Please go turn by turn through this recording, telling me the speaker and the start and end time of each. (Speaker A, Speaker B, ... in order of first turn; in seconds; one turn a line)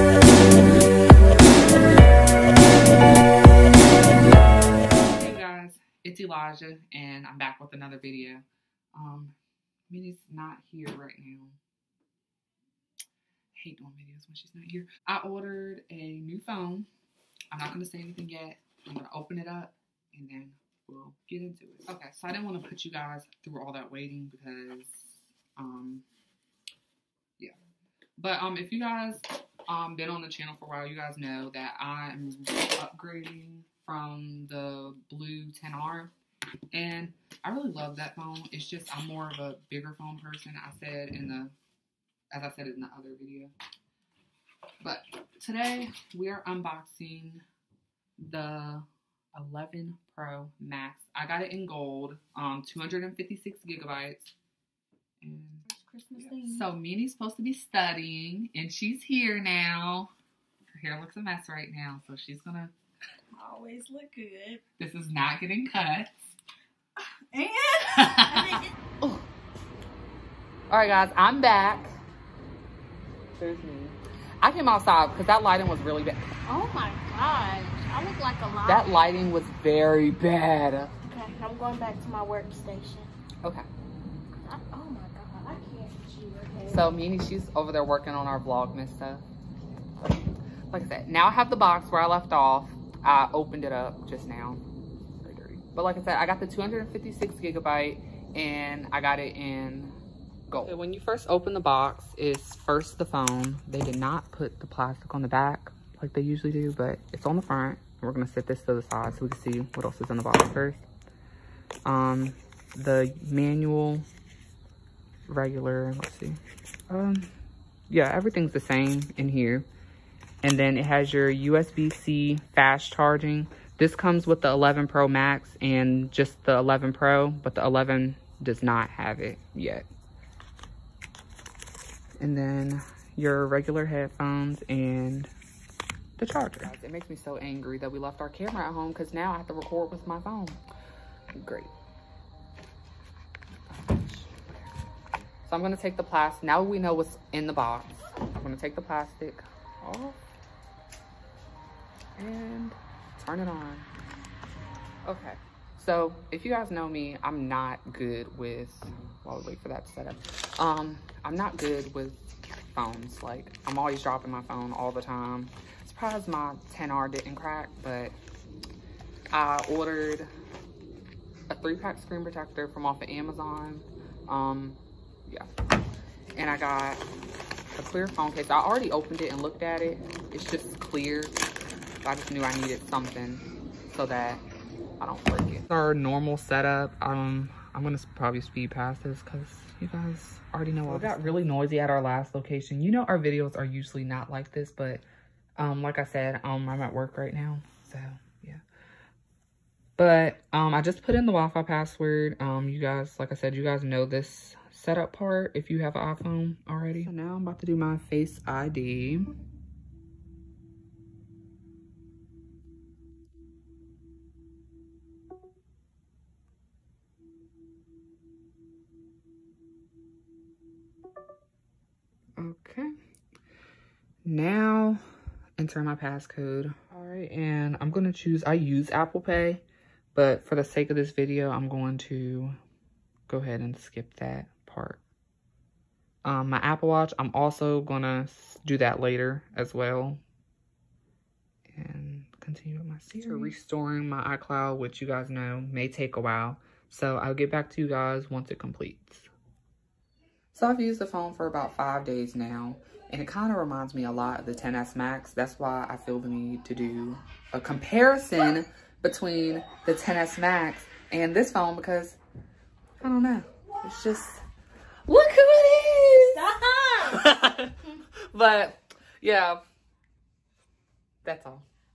Speaker A: 4.3-9.3
Speaker A: 9.9-11.6
Speaker A: 13.5-16.9
Speaker A: 17.5-26.0
Speaker A: 28.2-36.1
Speaker A: 36.7-41.5
Speaker A: 42.3-43.5
Speaker A: 44.8-47.4
Speaker A: 48.2-54.3
Speaker A: 55.2-55.7
Speaker B: 55.7-56.7
Speaker A: 56.4-60.1
Speaker A: 60.7-62.7
Speaker B: 63.4-64.6
Speaker A: 64.8-66.3
Speaker B: 67.3-68.7
Speaker A: 67.9-69.2
Speaker A: 70.7-71.9
Speaker A: 73.4-76.3
Speaker B: 76.5-79.3
Speaker A: 78.7-80.9
Speaker B: 81.1-83.1
Speaker B: 84.4-86.9
Speaker A: 86.7-89.2
Speaker A: 90.7-94.6
Speaker A: 95.2-100.0
Speaker A: 100.5-110.8
Speaker A: 111.8-114.0
Speaker A: 115.3-117.3
Speaker A: 117.9-119.7
Speaker A: 120.4-129.9
Speaker A: 132.2-135.3
Speaker A: 136.2-140.6
Speaker A: 141.3-141.7
Speaker A: 143.7-144.6
Speaker A: 145.4-150.2
Speaker A: 152.2-153.9
Speaker A: 155.0-162.2
Speaker A: 162.7-168.1
Speaker A: 169.3-170.3
Speaker A: 171.5-175.5
Speaker A: 176.3-177.0
Speaker A: 177.8-181.3
Speaker A: 182.0-184.4
Speaker A: 185.0-195.0
Speaker A: 195.6-198.6
Speaker A: 200.0-209.3
Speaker A: 222.4-222.9
Speaker A: 224.2-225.0
Speaker A: 225.6-229.6
Speaker A: 230.1-232.6
Speaker A: 233.3-235.0
Speaker A: 236.2-240.2
Speaker A: 241.7-249.3
Speaker A: 250.5-262.2
Speaker A: 263.0-264.4
Speaker A: 265.1-269.6
Speaker B: 266.3-267.2
Speaker A: 271.2-271.6